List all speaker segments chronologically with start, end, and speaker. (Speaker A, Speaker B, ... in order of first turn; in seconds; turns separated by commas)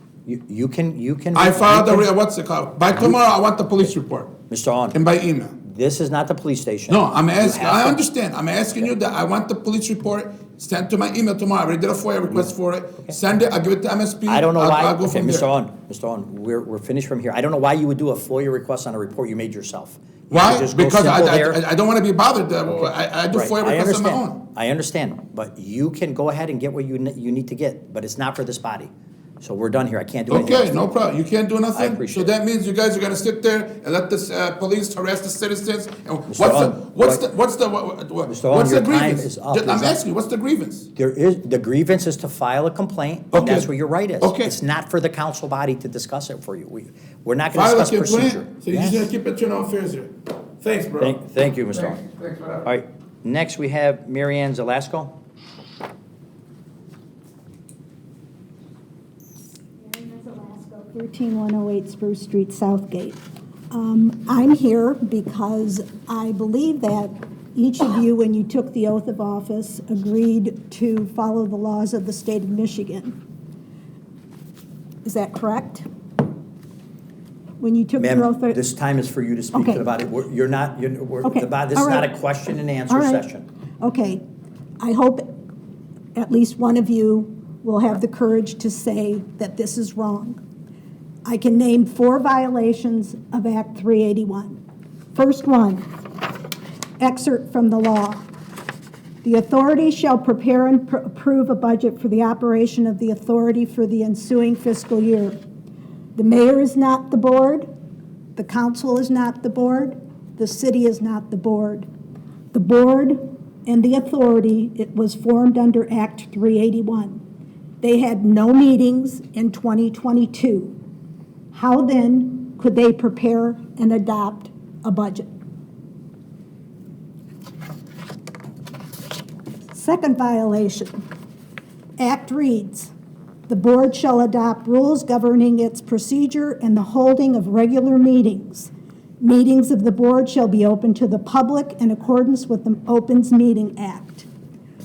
Speaker A: 0.2-2.1, Speaker B: 1.3-4.3, Speaker A: 4.5-5.0, Speaker B: 4.9-5.6, Speaker A: 5.6-8.0, Speaker B: 6.9-15.5, Speaker A: 14.3-21.6, Speaker B: 20.3-24.4, Speaker A: 23.3-30.8, Speaker B: 30.3-40.9, Speaker A: 31.7-32.3, Speaker A: 36.3-37.2, Speaker A: 38.3-40.0, Speaker A: 40.9-49.1, Speaker B: 43.3-43.7, Speaker B: 44.2-44.5, Speaker B: 47.5-52.7, Speaker A: 51.0-52.0, Speaker A: 52.6-55.1, Speaker C: 59.8-73.2, Speaker C: 75.0-75.9, Speaker C: 77.6-78.6, Speaker A: 78.0-83.4, Speaker C: 79.5-79.8, Speaker C: 81.2-82.1, Speaker C: 82.9-83.2, Speaker C: 83.8-84.2, Speaker C: 84.8-85.3, Speaker C: 86.1-90.4, Speaker C: 91.2-94.6, Speaker C: 95.1-95.8, Speaker C: 97.0-98.2, Speaker C: 99.2-105.4, Speaker C: 106.1-107.7, Speaker C: 108.3-111.9, Speaker C: 112.5-117.2, Speaker C: 117.8-120.8, Speaker C: 121.5-125.3, Speaker C: 129.7-130.9, Speaker C: 132.0-132.9, Speaker C: 133.5-144.3